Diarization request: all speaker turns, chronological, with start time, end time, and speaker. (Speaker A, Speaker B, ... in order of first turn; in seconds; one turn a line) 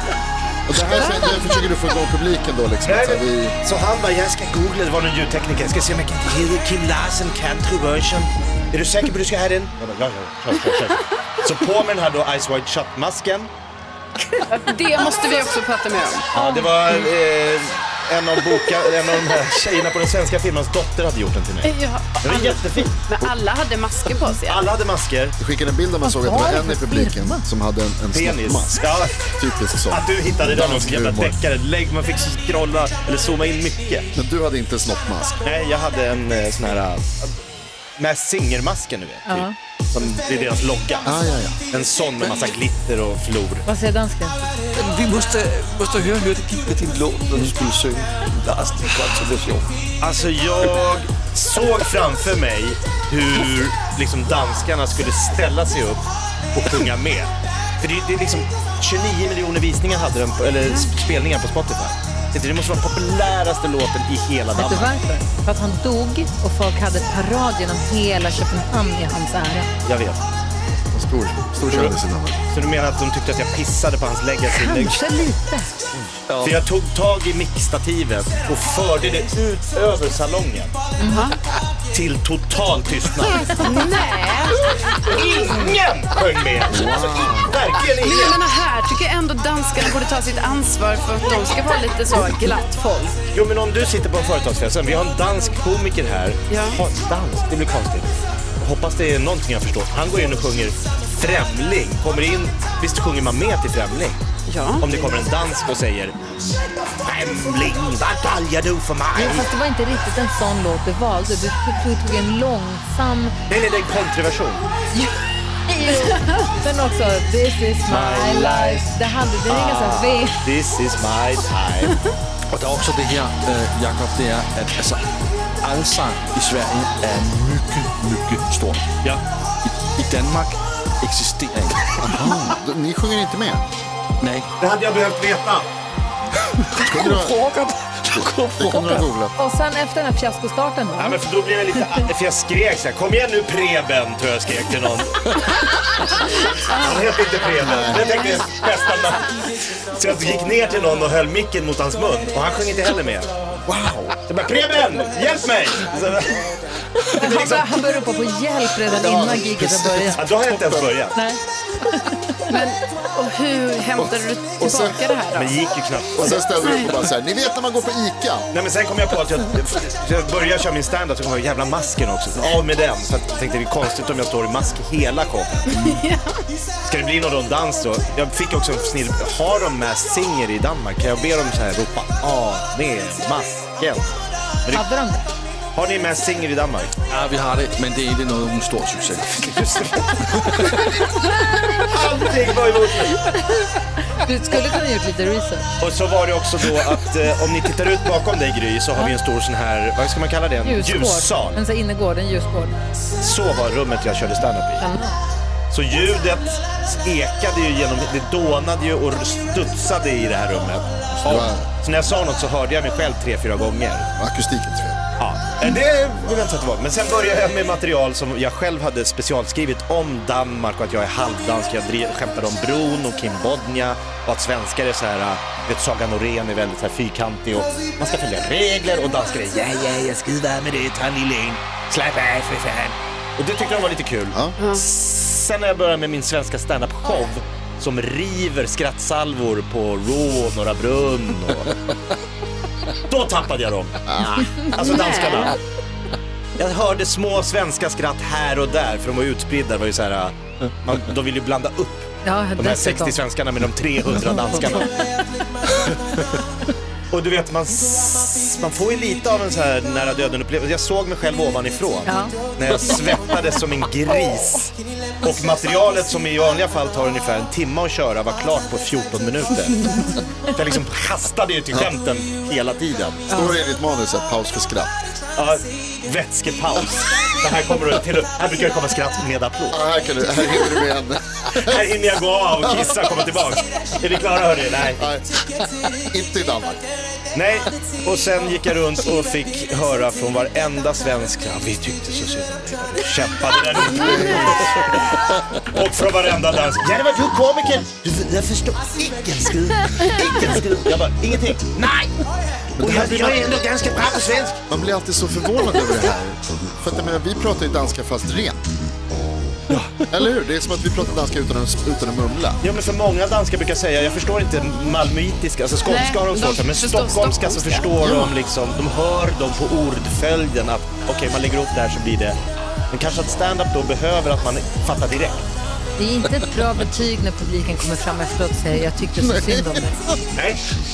Speaker A: 0.7-3.6
Speaker B: 0.7-1.1
Speaker C: 0.9-1.3
Speaker B: 2.9-13.5
Speaker D: 14.5-16.3
Speaker C: 16.3-16.7
Speaker B: 16.3-21.7
Speaker D: 21.6-24.7
Speaker B: 22.2-23.0
Speaker B: 24.5-25.4
Speaker A: 25.4-31.4
Speaker C: 26.1-27.4
Speaker B: 28.1-34.1
Speaker A: 34.2-35.4
Speaker B: 35.4-37.4
Speaker B: 38.0-41.2
Speaker C: 39.3-39.5
Speaker A: 41.0-41.6
Speaker B: 41.7-43.7
Speaker C: 43.7-44.4
Speaker E: 44.7-49.7
Speaker B: 50.0-64.9
Speaker C: 64.5-69.7
Speaker B: 69.8-70.2
Speaker A: 70.9-72.4
Speaker B: 71.7-72.0
Speaker B: 72.5-75.0
Speaker C: 74.5-75.7
Speaker B: 75.9-80.7
Speaker E: 76.3-76.6
Speaker C: 81.0-81.2
Speaker D: 81.1-81.3
Speaker B: 81.9-83.5
Speaker D: 83.6-84.7
Speaker B: 84.7-88.4
Speaker E: 86.8-87.5
Speaker D: 88.0-93.2
Speaker B: 93.3-104.2
Speaker D: 96.5-96.8
Speaker D: 104.5-104.9
Speaker B: 104.8-106.2
Speaker B: 107.0-109.5
Speaker C: 109.2-113.3
Speaker B: 113.5-114.7
Speaker C: 115.7-120.4
Speaker B: 117.9-118.9
Speaker B: 119.5-122.0
Speaker E: 122.5-125.0
Speaker E: 125.6-128.9
Speaker E: 129.6-132.2
Speaker A: 132.0-133.7
Speaker E: 134.2-134.5
Speaker B: 134.6-135.7
Speaker E: 136.6-139.0
Speaker A: 136.9-137.4
Speaker A: 138.1-139.3
Speaker C: 139.3-141.2
Speaker B: 141.0-145.7
Speaker B: 146.3-153.3
Speaker D: 146.6-147.1
Speaker A: 147.6-148.1
Speaker D: 147.6-148.5
Speaker A: 153.7-154.2
Speaker B: 154.3-157.9
Speaker C: 157.1-160.2
Speaker A: 158.9-160.9
Speaker B: 160.2-161.2
Speaker C: 161.1-162.4
Speaker D: 162.5-165.6
Speaker A: 164.0-165.0
Speaker B: 165.3-166.4
Speaker A: 166.2-168.5
Speaker D: 166.2-167.0
Speaker B: 168.5-175.9
Speaker D: 175.8-176.3
Speaker B: 176.8-184.8
Speaker C: 184.7-185.3
Speaker B: 185.8-186.9
Speaker E: 187.1-189.4
Speaker B: 189.4-191.1
Speaker E: 190.3-190.7
Speaker B: 191.8-193.3
Speaker C: 193.2-195.7
Speaker B: 195.8-201.6
Speaker C: 200.6-202.8
Speaker B: 203.2-204.8
Speaker C: 204.8-205.2
Speaker B: 205.7-214.1
Speaker A: 211.2-211.7
Speaker A: 214.2-215.0
Speaker B: 215.2-241.7
Speaker D: 234.6-234.8
Speaker B: 242.9-245.6
Speaker A: 244.1-244.4
Speaker D: 244.8-245.6
Speaker B: 246.6-254.9
Speaker C: 252.2-253.2
Speaker C: 254.8-255.0
Speaker B: 257.1-273.4
Speaker C: 262.1-262.4
Speaker C: 273.3-273.6
Speaker A: 273.3-274.9
Speaker B: 275.4-279.9
Speaker A: 279.7-281.8
Speaker B: 281.5-285.1
Speaker A: 285.0-285.3
Speaker A: 286.0-286.8
Speaker B: 287.3-302.1
Speaker A: 293.9-294.7
Speaker A: 302.8-303.9
Speaker B: 302.8-304.6
Speaker A: 304.7-308.6
Speaker A: 309.8-312.6
Speaker B: 312.6-322.4
Speaker D: 315.9-318.3
Speaker B: 322.9-325.5
Speaker C: 326.0-330.0
Speaker A: 329.2-330.2
Speaker B: 330.3-330.6